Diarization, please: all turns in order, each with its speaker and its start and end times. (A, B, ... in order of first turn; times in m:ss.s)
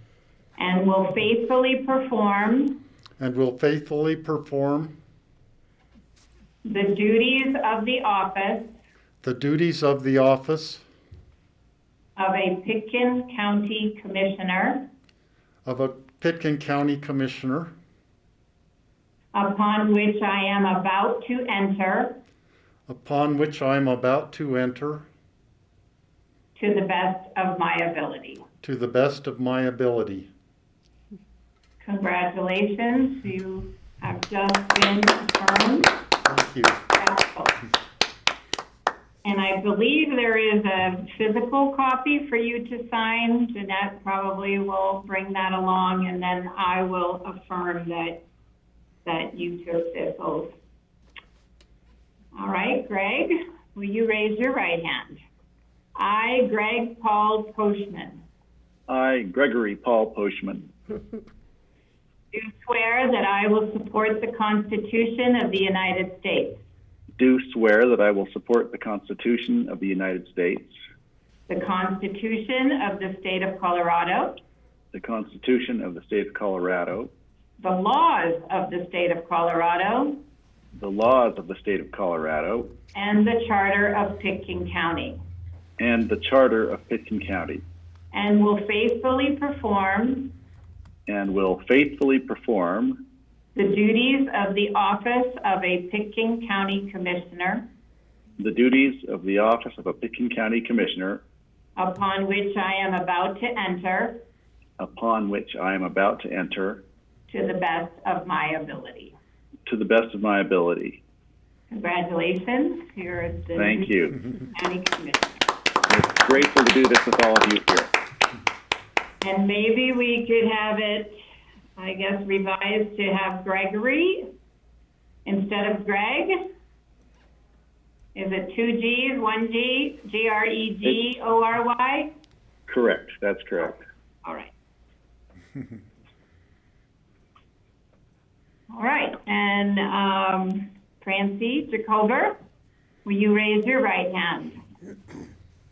0:00.6-0:02.8 A
0:03.2-0:05.0 B
0:06.6-0:08.7 A
0:09.2-0:10.8 B
0:12.2-0:14.8 A
0:15.6-0:17.7 B
0:19.3-0:22.2 A
0:22.9-0:25.1 B
0:26.6-0:28.4 A
0:28.6-0:30.3 B
0:31.8-0:35.9 A
0:36.2-0:36.8 B
0:37.0-0:37.5 A
0:39.2-0:48.2 A
0:49.0-0:50.5 A
0:52.3-0:55.2 A
0:55.9-0:58.2 A
0:58.9-1:00.7 C
1:02.3-1:06.6 A
1:07.2-1:10.7 C
1:11.5-1:14.4 A
1:14.9-1:17.1 C
1:17.6-1:20.2 A
1:20.7-1:22.7 C
1:22.9-1:25.2 A
1:25.8-1:27.6 C
1:28.1-1:30.3 A
1:31.1-1:33.0 C
1:33.5-1:37.6 A
1:38.4-1:41.2 C
1:41.8-1:44.2 A
1:44.8-1:46.8 C
1:47.3-1:49.2 A
1:49.7-1:51.0 C
1:51.7-1:55.4 A
1:53.6-1:54.2 C
1:55.9-1:57.9 C
1:59.2-2:01.1 A
2:01.8-2:04.3 A
2:05.2-2:06.4 A
2:08.1-2:12.1 A
2:12.7-2:13.8 C
2:14.2-2:14.5 A
2:18.7-2:22.4 A
2:23.0-2:24.6 A